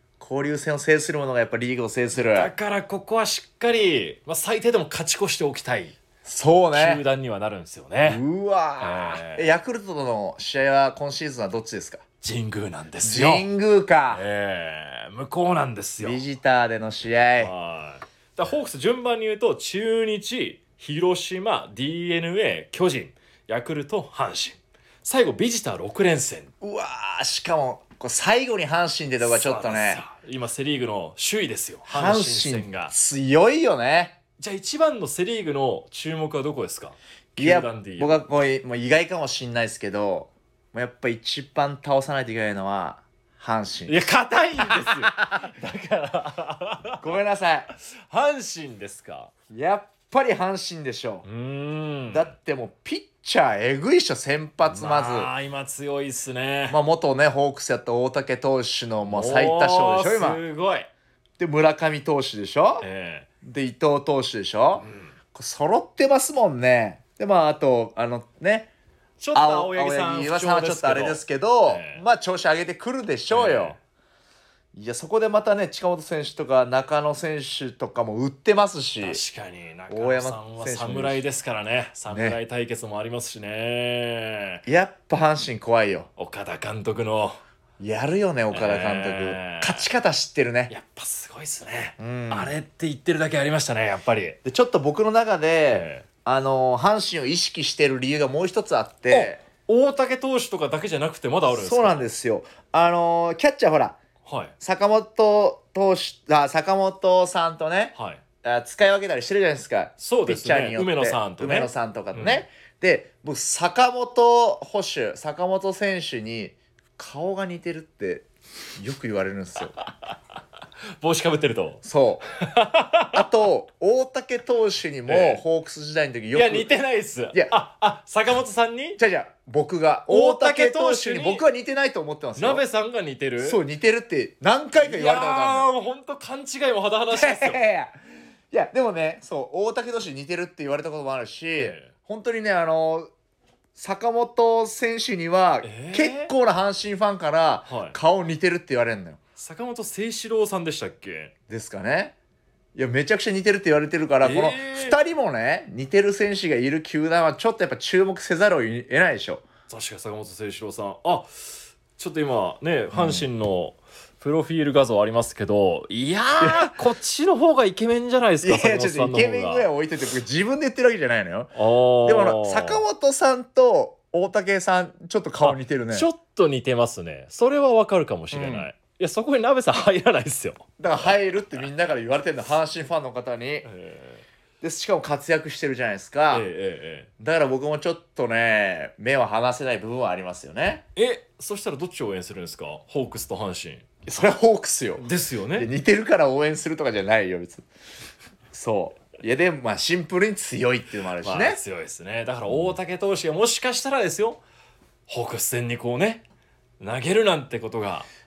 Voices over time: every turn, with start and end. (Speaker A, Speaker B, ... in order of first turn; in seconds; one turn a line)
Speaker A: 0.2-2.5
Speaker B: 2.1-6.0
Speaker A: 6.2-7.0
Speaker B: 6.7-8.2
Speaker A: 8.0-12.0
Speaker B: 8.8-9.5
Speaker B: 12.2-13.5
Speaker A: 13.0-14.2
Speaker B: 14.1-16.2
Speaker A: 16.0-17.5
Speaker B: 17.4-26.5
Speaker A: 26.6-30.0
Speaker B: 29.2-32.9
Speaker A: 31.8-34.2
Speaker B: 34.4-38.2
Speaker A: 37.4-44.0
Speaker B: 43.9-47.1
Speaker A: 44.6-45.4
Speaker A: 47.0-47.7
Speaker B: 48.1-49.3
Speaker A: 49.5-51.2
Speaker B: 51.2-52.3
Speaker A: 52.1-55.3
Speaker B: 54.6-56.8
Speaker A: 56.7-60.4
Speaker B: 59.1-60.9
Speaker A: 61.4-62.9
Speaker B: 62.8-63.3
Speaker A: 63.4-68.7
Speaker B: 64.8-65.1
Speaker B: 69.2-72.0
Speaker A: 69.3-73.8
Speaker B: 73.3-73.8
Speaker A: 74.7-79.2
Speaker B: 79.0-84.6
Speaker A: 79.9-81.2
Speaker A: 82.1-82.4
Speaker A: 84.7-86.1
Speaker B: 86.2-87.4
Speaker A: 87.8-90.7
Speaker B: 88.5-89.9
Speaker B: 90.7-94.4
Speaker A: 92.0-92.5
Speaker A: 94.4-99.4
Speaker B: 95.7-96.0
Speaker B: 99.1-102.1
Speaker A: 101.5-104.0
Speaker B: 104.2-104.5
Speaker A: 104.6-119.8
Speaker B: 107.9-108.2
Speaker B: 110.0-112.4
Speaker B: 121.0-121.8
Speaker A: 121.8-122.3
Speaker B: 122.4-123.2
Speaker A: 123.1-126.8
Speaker B: 125.0-125.4
Speaker B: 126.3-129.0
Speaker A: 129.0-132.6
Speaker B: 130.1-131.4
Speaker B: 132.4-133.6
Speaker A: 133.4-135.7
Speaker B: 134.8-137.6
Speaker A: 137.1-137.9
Speaker A: 138.5-143.1
Speaker B: 141.6-141.9
Speaker A: 143.8-149.2
Speaker B: 145.6-146.3
Speaker B: 147.7-148.0
Speaker B: 149.3-151.3
Speaker A: 151.5-152.1
Speaker A: 152.7-159.4
Speaker B: 154.2-155.0
Speaker B: 159.7-161.3
Speaker B: 161.9-169.7
Speaker A: 162.9-163.3
Speaker A: 166.4-166.7
Speaker A: 168.4-176.1
Speaker B: 171.5-172.8
Speaker B: 175.4-180.6
Speaker A: 178.3-178.7
Speaker A: 180.8-183.7
Speaker B: 183.6-184.2
Speaker A: 184.6-186.5
Speaker B: 186.3-187.1
Speaker A: 187.2-190.8
Speaker B: 190.9-193.8
Speaker A: 194.0-197.6
Speaker B: 195.0-195.7
Speaker A: 198.5-201.6
Speaker B: 201.2-204.4
Speaker B: 205.1-206.2
Speaker B: 206.8-208.1